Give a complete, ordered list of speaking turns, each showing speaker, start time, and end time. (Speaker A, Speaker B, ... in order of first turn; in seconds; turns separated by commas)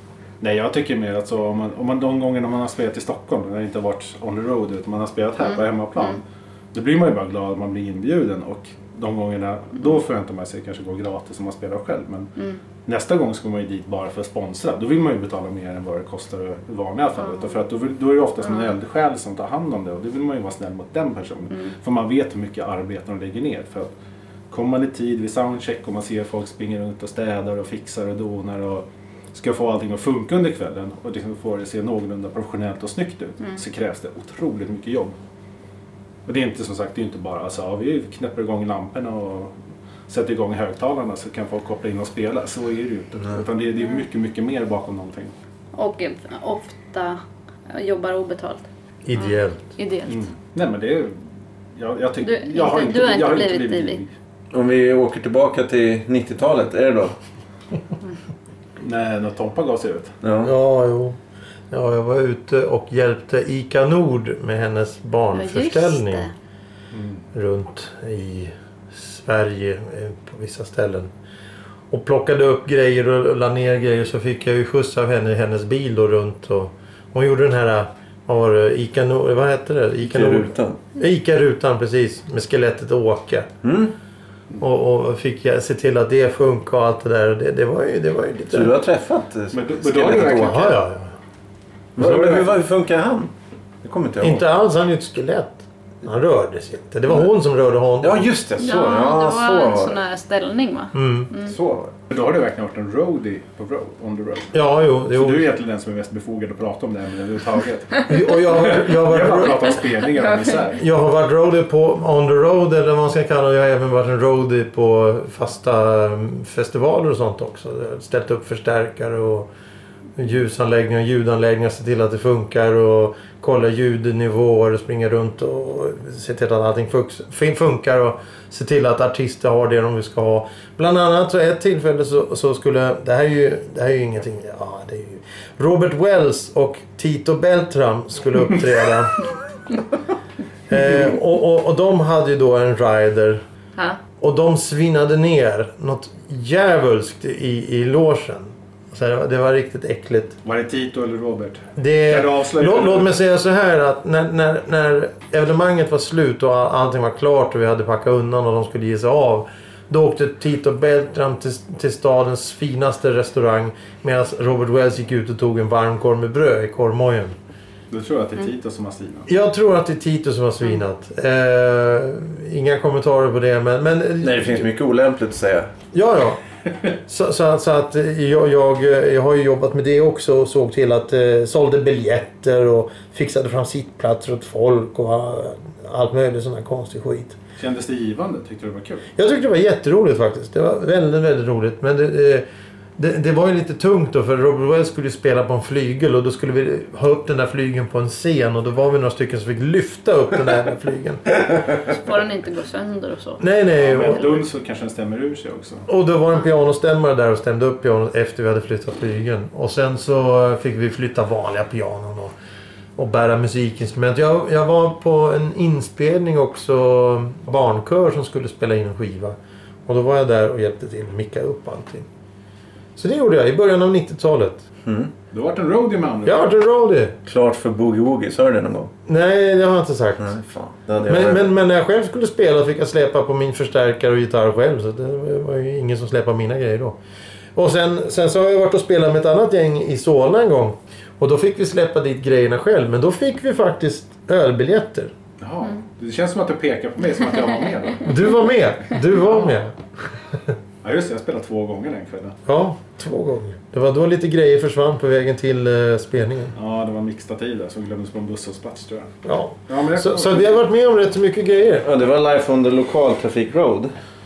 Speaker A: 0.4-6.2, Speaker B: 5.4-6.2, Speaker A: 6.7-12.3, Speaker A: 12.8-23.9, Speaker A: 24.5-35.1, Speaker A: 36.2-39.5, Speaker A: 40.1-45.3, Speaker B: 45.8-50.3, Speaker C: 49.0-49.7, Speaker A: 50.1-51.2, Speaker A: 51.8-54.1, Speaker B: 52.2-54.0, Speaker D: 54.5-57.1, Speaker A: 58.8-60.1, Speaker D: 60.2-60.5, Speaker C: 60.4-61.2, Speaker C: 61.7-66.3, Speaker B: 65.3-66.3, Speaker A: 66.9-67.2, Speaker C: 67.3-71.1, Speaker C: 71.9-83.5, Speaker D: 80.0-80.8, Speaker D: 83.6-83.9, Speaker C: 84.6-88.7, Speaker D: 88.5-90.8, Speaker A: 89.5-90.8, Speaker C: 90.2-91.1, Speaker D: 92.0-93.3, Speaker A: 92.0-92.5, Speaker D: 93.8-94.4, Speaker C: 94.2-98.3, Speaker D: 98.0-100.0, Speaker B: 98.6-101.5, Speaker C: 100.9-101.3, Speaker D: 101.4-101.9, Speaker A: 102.1-110.8, Speaker C: 104.5-105.5, Speaker C: 108.1-109.8, Speaker B: 110.0-110.7, Speaker C: 110.8-119.5, Speaker C: 120.2-139.3, Speaker C: 140.7-143.4, Speaker C: 144.2-150.4, Speaker A: 150.4-153.1, Speaker C: 151.8-167.3, Speaker A: 167.9-169.3, Speaker C: 169.3-174.7, Speaker D: 174.2-175.7, Speaker C: 175.9-176.4, Speaker C: 177.1-187.4, Speaker A: 187.6-189.1, Speaker C: 189.2-192.4, Speaker C: 193.0-201.2, Speaker B: 201.9-203.4, Speaker C: 203.4-204.3, Speaker A: 203.8-205.9, Speaker C: 205.9-212.3, Speaker C: 212.9-222.1, Speaker C: 222.9-224.7, Speaker D: 224.8-225.1, Speaker A: 225.3-226.5, Speaker C: 226.2-227.2, Speaker D: 227.2-228.9, Speaker C: 229.1-230.3, Speaker D: 230.2-231.5, Speaker C: 231.1-237.0, Speaker C: 237.6-245.1, Speaker A: 245.4-248.2, Speaker C: 248.0-249.8, Speaker A: 249.2-249.5, Speaker A: 250.8-252.4, Speaker C: 252.4-256.5, Speaker A: 256.5-259.1, Speaker C: 259.2-261.8, Speaker A: 259.7-260.5, Speaker D: 261.8-263.9